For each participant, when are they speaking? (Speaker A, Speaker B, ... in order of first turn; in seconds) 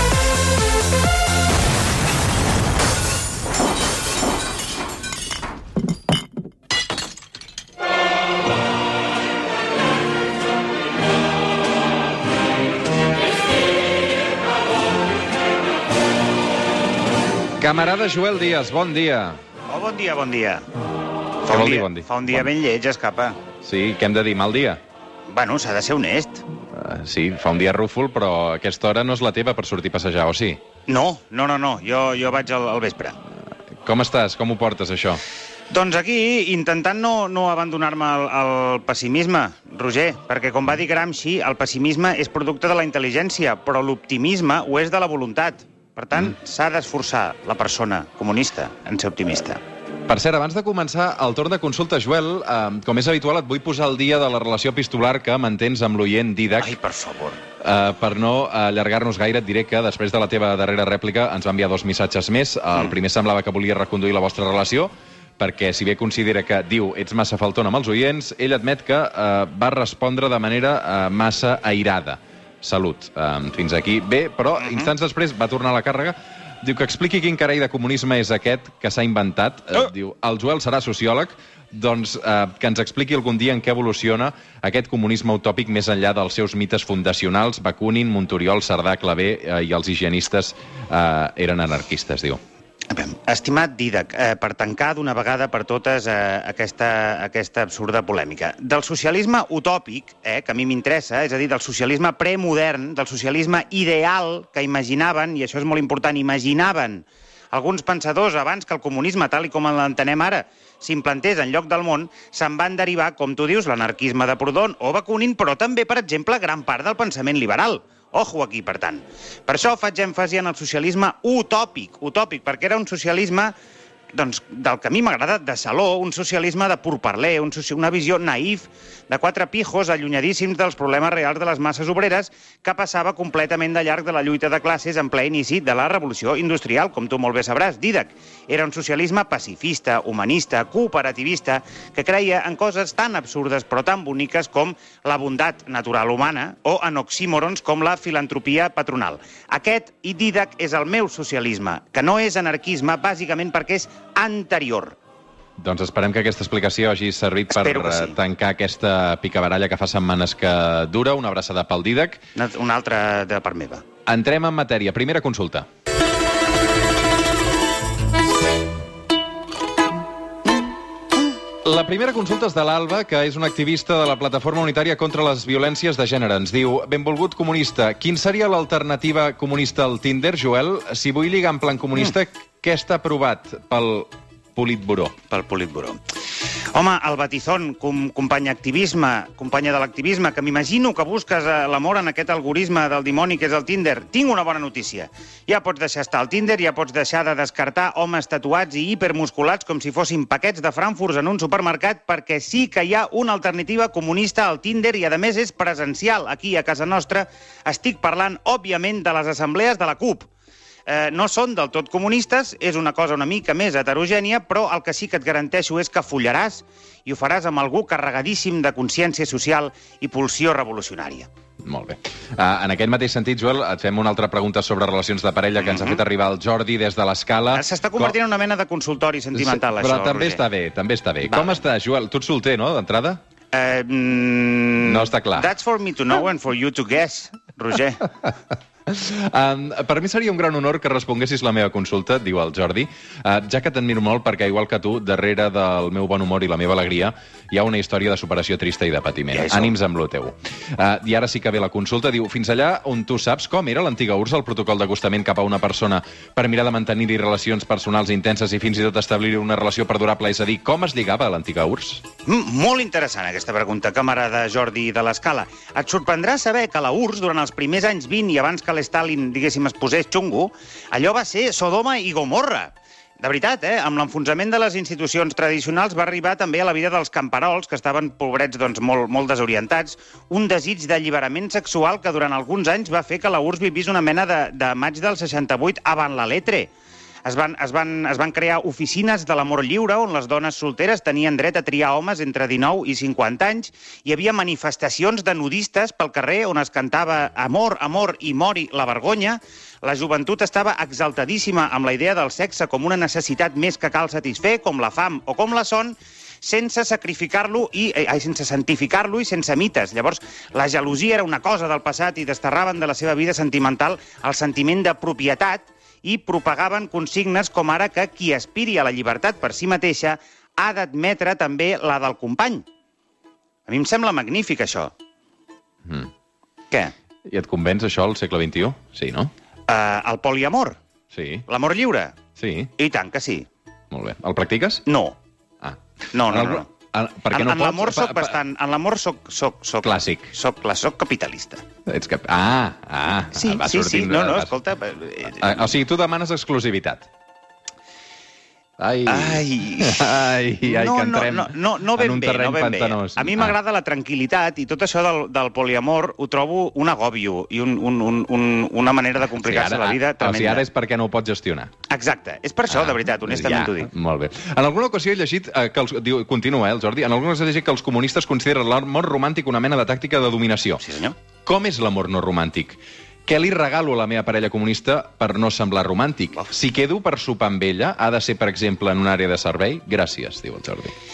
Speaker A: 17.6-19.4, 21.5-22.4, 23.6-24.8, 26.7-30.6, 33.8-35.2, 50.1-56.8, 57.6-92.4, 155.6-162.2, 164.1-165.7, 171.6-185.1, 221.6-228.1, 229.3-233.2, 234.8-235.5, 238.9-262.0, 325.8-326.1, 327.2-329.3, 331.1-331.4, 332.4-332.7, 333.9-334.8, 335.6-338.4, 339.8-340.3, 341.9-344.5, 345.4-347.1, 348.8-353.6, 359.3-361.7, 362.7-370.8, 371.4-380.9
Speaker B: 19.7-20.7, 21.4-23.4, 25.3-26.4, 30.9-33.2, 35.7-49.6, 56.6-57.4, 74.6-74.9, 92.9-123.5, 124.1-155.0, 157.5-158.2, 162.3-163.8, 185.3-186.0, 186.7-210.3, 210.9-221.3, 225.6-226.0, 227.5-230.4, 231.2-231.6, 233.5-238.1, 249.3-249.7, 262.2-286.7, 287.2-322.6, 323.7-324.9, 329.7-330.8, 331.5-332.1, 332.8-333.5, 334.9-335.2, 336.1-336.7, 337.3-341.6, 343.3-345.7, 349.1-360.6, 361.9-363.9, 370.8-371.1